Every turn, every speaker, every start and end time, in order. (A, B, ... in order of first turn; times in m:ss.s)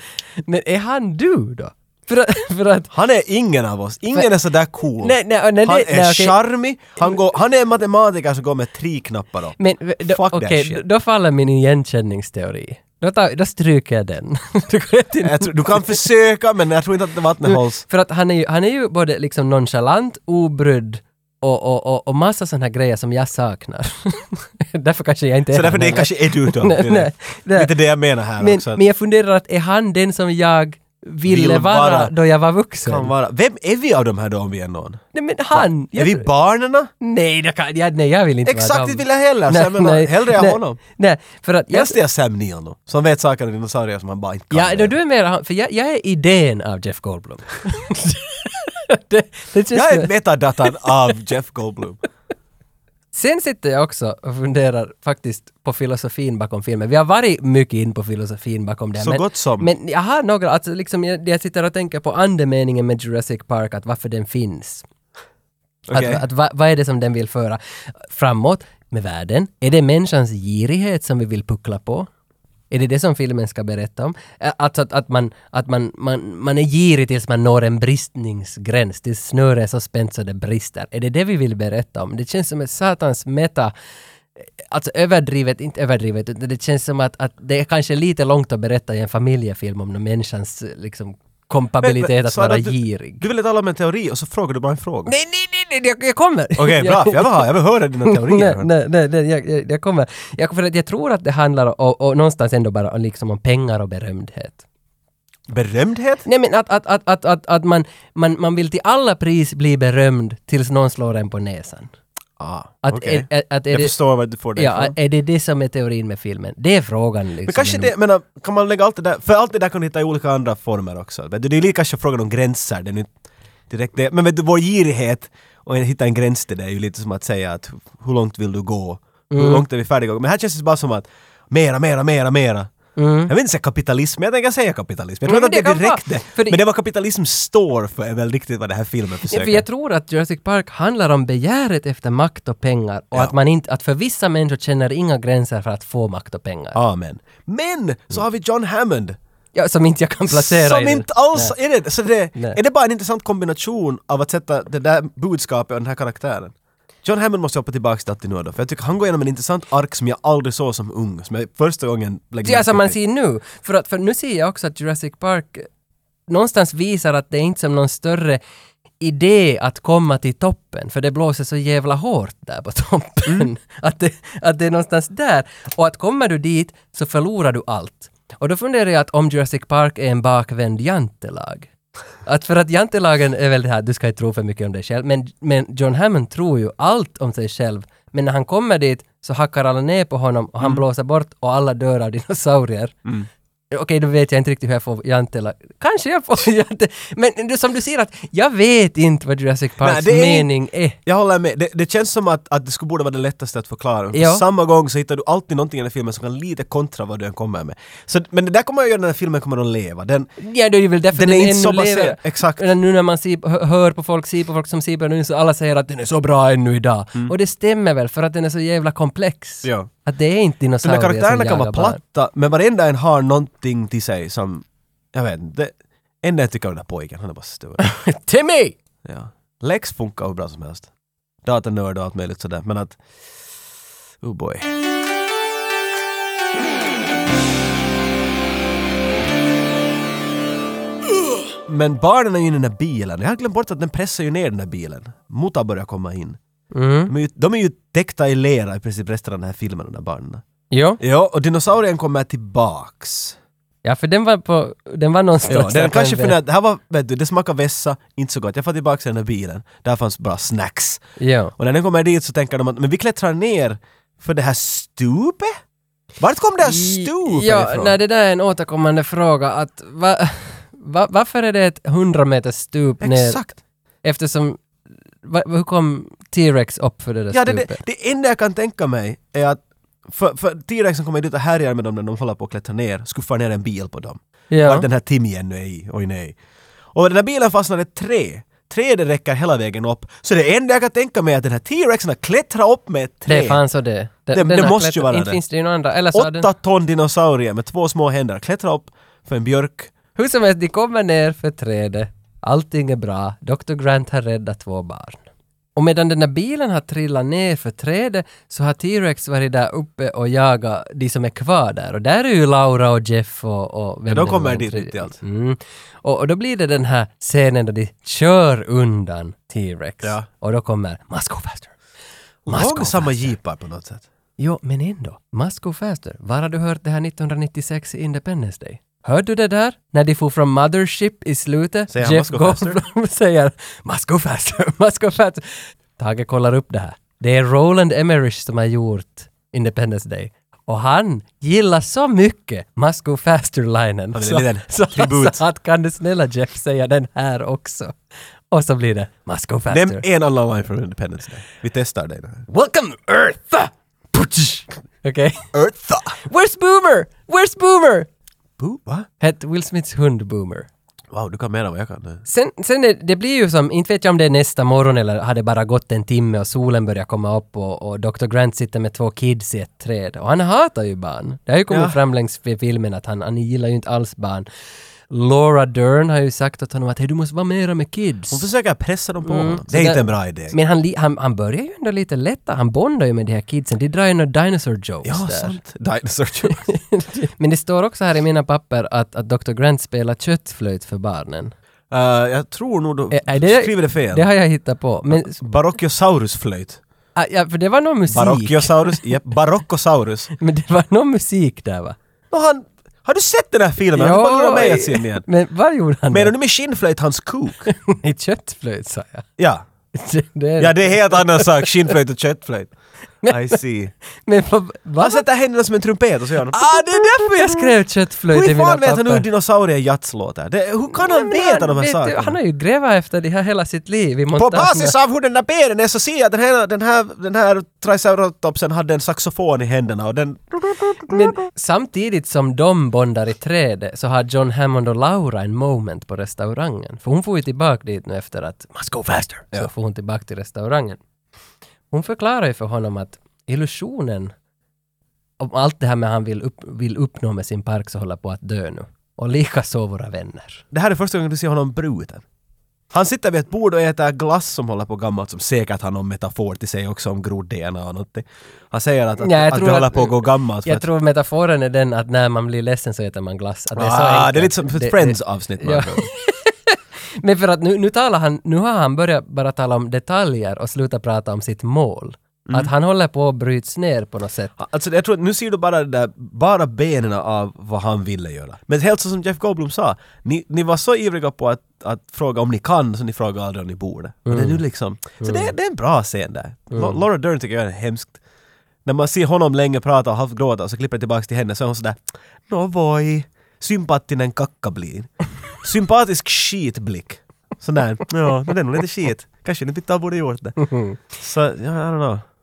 0:00.4-0:02.9 A
0:02.9-0:10.8 B
0:05.0-0:06.4 A
0:09.6-0:16.0 A
0:15.2-0:17.8 B
0:17.4-0:27.7 A
0:25.5-0:28.8 B
0:28.4-0:33.1 A
0:31.2-0:32.1 B
0:32.8-0:36.9 B
0:35.1-0:36.3 A
0:37.0-0:42.0 A
0:38.4-0:40.8 B
0:41.7-0:45.0 B
0:44.5-0:50.1 A
0:49.7-0:52.0 B
0:53.1-1:04.9 A
0:59.0-0:59.7 B
1:05.9-1:06.2 B
1:05.9-1:12.1 A
1:12.7-1:23.7 A
1:24.4-1:33.2 A
1:31.8-1:35.1 B
1:35.1-1:37.5 A
1:36.6-1:38.7 B
1:38.0-1:44.6 A
1:45.5-1:46.3 B
1:46.2-1:51.9 A
1:52.4-1:55.0 B
1:52.8-1:54.0 A
1:54.6-1:57.9 A
1:57.5-2:03.1 B
2:03.7-2:12.7 B
2:09.3-2:09.6 A
2:13.0-2:13.3 A
2:13.3-2:19.6 B
2:15.3-2:16.6 A
2:19.3-2:26.8 A
2:26.7-2:29.2 B
2:29.5-2:31.6 A
2:30.3-2:43.0 B
2:42.4-2:45.7 A
2:46.3-2:48.4 A
2:49.0-3:01.7 A
3:02.2-3:13.0 A
3:13.7-3:21.0 A
3:19.8-3:20.5 B
3:21.0-3:30.3 B
3:24.1-3:24.4 A
3:30.4-3:42.0 A
3:31.1-3:32.7 B
3:39.6-3:39.9 B
3:40.8-3:47.9 B
3:47.8-3:48.8 A
3:49.0-3:50.9 B
3:51.4-3:53.0 B
3:54.2-3:54.7 B
4:01.7-4:06.4 B
4:06.7-4:07.1 A
4:07.1-4:10.4 B
4:10.7-4:11.0 A
4:11.0-4:13.4 B
4:13.8-4:16.4 A
4:15.5-4:21.0 B
4:21.2-4:21.5 A
4:21.6-4:25.6 B
4:26.2-4:28.0 B
4:26.6-4:33.4 A
4:33.0-4:33.6 B
4:34.0-4:34.6 A
4:35.2-4:37.8 A
4:37.3-4:46.4 B
4:44.5-4:44.9 A
4:46.9-4:53.6 B
4:53.3-4:56.5 A
4:54.3-4:55.4 B
4:56.1-4:59.9 B
5:00.2-5:05.2 A
5:05.8-5:21.7 A
5:14.1-5:15.2 B
5:20.0-5:20.3 B
5:22.5-5:23.4 A
5:22.5-5:24.0 B
5:24.4-5:48.0 A
5:31.9-5:32.8 B
5:44.1-5:45.4 B
5:48.5-5:50.0 A
5:49.7-5:52.5 B
5:52.5-5:55.5 A
5:55.5-5:56.2 B
5:56.2-5:58.1 A
5:58.6-5:59.1 B
5:59.2-6:00.7 A
6:01.1-6:02.2 B
6:02.3-6:14.5 A
6:11.7-6:12.0 B
6:15.1-6:18.4 A
6:18.3-6:20.6 B
6:19.2-6:25.6 A
6:25.0-6:26.7 B
6:26.5-6:31.5 A
6:31.9-6:34.3 B
6:33.1-6:35.4 A
6:35.1-6:36.8 B
6:37.2-6:39.1 A
6:38.1-6:40.3 B
6:40.4-6:42.0 A
6:42.3-6:45.2 B
6:43.9-6:46.3 A
6:46.1-6:47.7 B
6:47.7-6:49.3 A
6:49.4-6:49.6 B
6:49.9-6:51.7 A
6:50.6-6:52.7 B
6:53.2-6:53.6 A
6:53.3-6:53.9 B
6:54.2-6:55.2 A
6:55.0-6:57.7 B
6:56.5-6:59.2 A
6:58.3-7:02.4 B
7:00.9-7:05.0 A
7:04.4-7:11.4 B
7:11.1-7:21.0 A
7:21.9-7:24.3 A
7:25.4-7:30.6 A
7:30.7-7:32.2 B
7:32.9-7:40.9 B
7:39.2-7:54.5 A
7:43.8-7:46.1 B
7:52.5-7:52.7 B
7:54.6-8:08.2 B
8:04.3-8:04.6 A
8:05.2-8:05.5 A
8:06.7-8:07.0 A
8:08.8-8:20.6 B
8:20.7-8:21.0 A
8:21.1-8:22.2 B